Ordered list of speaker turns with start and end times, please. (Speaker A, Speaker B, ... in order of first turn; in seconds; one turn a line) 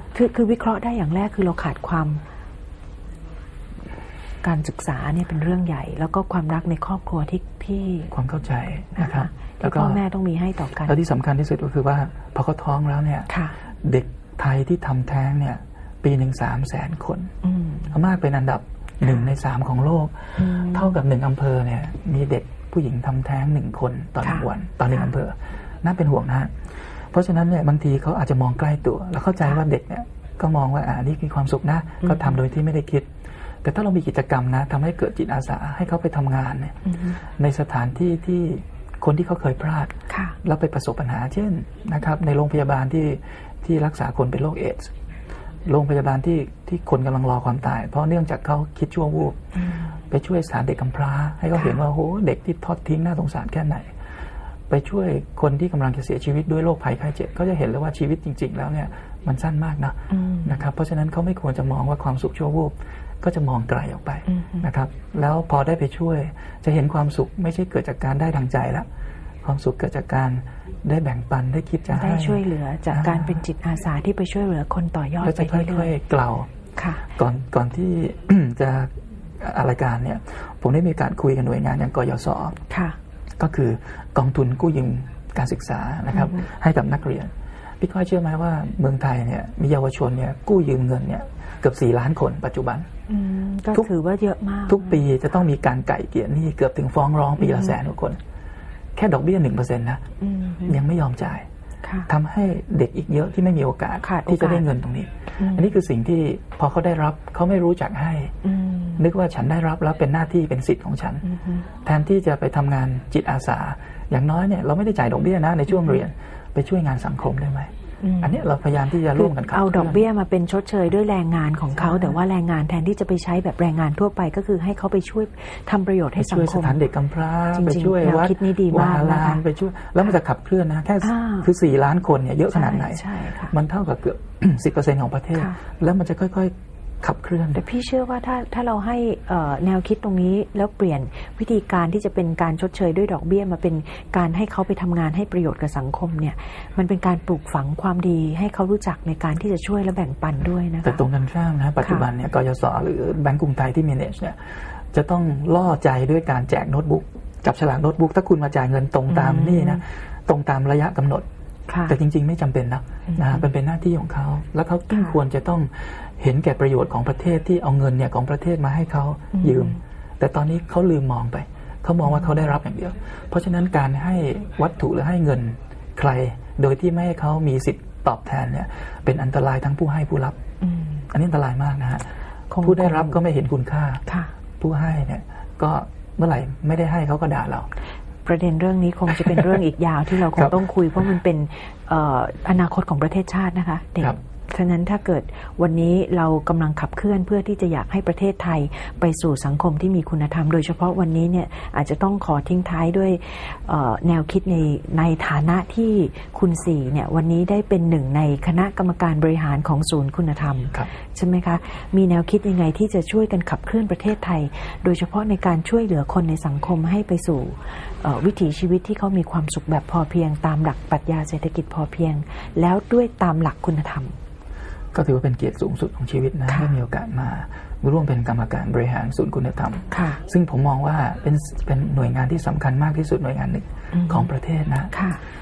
Speaker A: 0.1-2.2
Speaker A: 4.4-8.1
Speaker B: 8.1-10.0
Speaker A: 8.9-10.9
Speaker B: 10.8-13.3
Speaker A: 13.3-13.5
Speaker B: 13.8-17.3
Speaker A: 17.4-17.9
Speaker B: 17.9-26.5
Speaker A: 20.4-20.9
Speaker B: 27.1-33.1
Speaker A: 32.0-32.4
Speaker B: 33.6-44.9
Speaker A: 36.9-37.1
Speaker A: 40.1-40.4
Speaker B: 45.6-49.4
Speaker B: 50.1-53.9
Speaker B: 54.7-68.8
Speaker A: 60.1-60.5
Speaker A: 64.3-64.7
Speaker B: 69.4-73.4
Speaker A: 71.9-75.9
Speaker B: 75.2-76.5
Speaker A: 76.8-77.0
Speaker B: 77.1-82.6
Speaker A: 82.7-83.0
Speaker B: 83.4-92.8
Speaker A: 86.2-86.4
Speaker A: 93.1-95.0
Speaker B: 94.7-98.2
Speaker A: 97.4-97.7
Speaker B: 99.0-100.0
Speaker A: 100.2-100.7
Speaker B: 100.6-101.4
Speaker A: 101.8-102.1
Speaker B: 102.1-108.3
Speaker A: 104.0-104.7
Speaker A: 105.4-105.6
Speaker A: 108.4-109.0
Speaker B: 109.0-111.2
Speaker A: 111.2-111.6
Speaker B: 111.8-120.0
Speaker A: 115.7-116.0
Speaker A: 118.0-118.4
Speaker A: 119.1-126.8
Speaker B: 121.8-122.1
Speaker B: 126.2-137.6
Speaker A: 127.5-129.4
Speaker A: 131.0-131.5
Speaker A: 132.5-133.5
Speaker A: 137.5-151.0
Speaker B: 150.8-161.2
Speaker A: 159.1-159.8
Speaker A: 161.7-161.9
Speaker B: 161.9-180.4
Speaker A: 163.1-163.4
Speaker A: 169.3-169.8
Speaker A: 180.6-181.0
Speaker B: 181.1-182.1
Speaker A: 182.5-183.2
Speaker B: 182.6-184.0
Speaker B: 184.6-187.7
Speaker A: 188.2-224.2
Speaker B: 190.3-190.6
Speaker B: 224.9-234.9
Speaker A: 229.9-230.2
Speaker A: 233.9-234.2
Speaker A: 234.9-235.2